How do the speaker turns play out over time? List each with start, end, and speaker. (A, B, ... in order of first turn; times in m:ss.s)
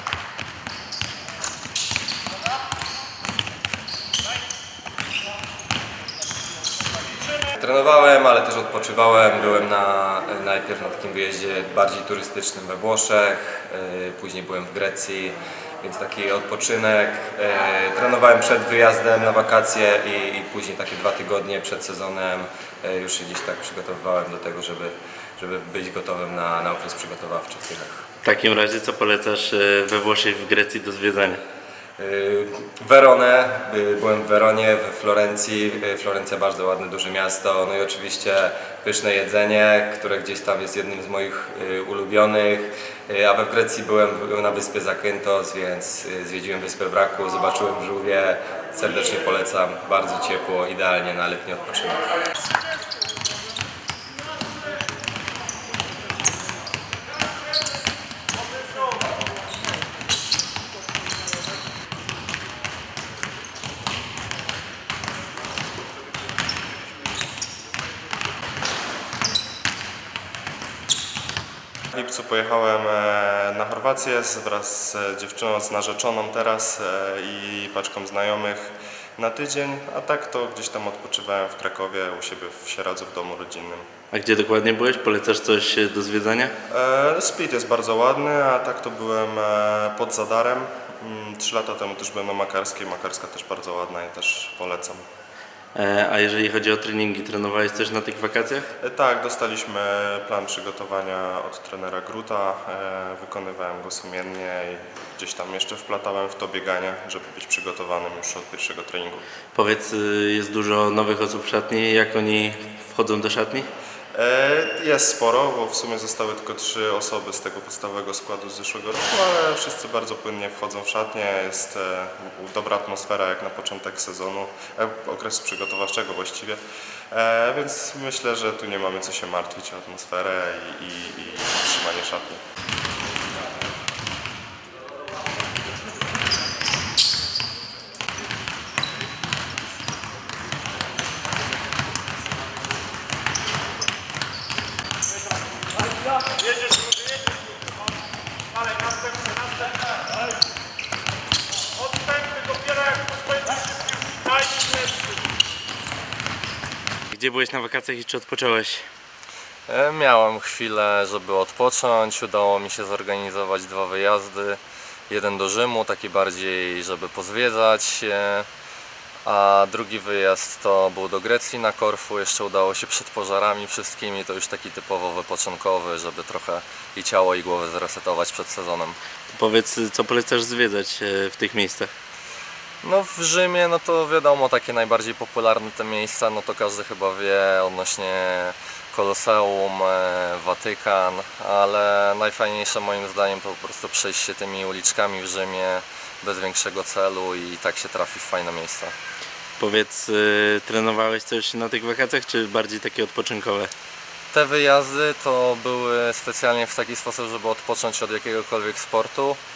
0:07.5-0:28.1 A
0:28.2-0:31.4 B
0:32.0-0:52.1 A
1:11.9-1:23.9 C
1:24.1-1:26.5 B
1:26.7-1:35.0 C
1:35.7-1:38.7 B
1:38.8-1:49.2 C
1:49.5-1:53.7 B
1:54.1-2:06.6 C
2:07.1-2:12.4 C
2:37.1-2:38.9 B
2:39.7-2:48.5 D
2:49.2-2:59.0 D
2:59.3-3:01.9 B
3:02.8-3:18.9 D
3:19.6-3:23.7 B
3:24.3-3:29.4 D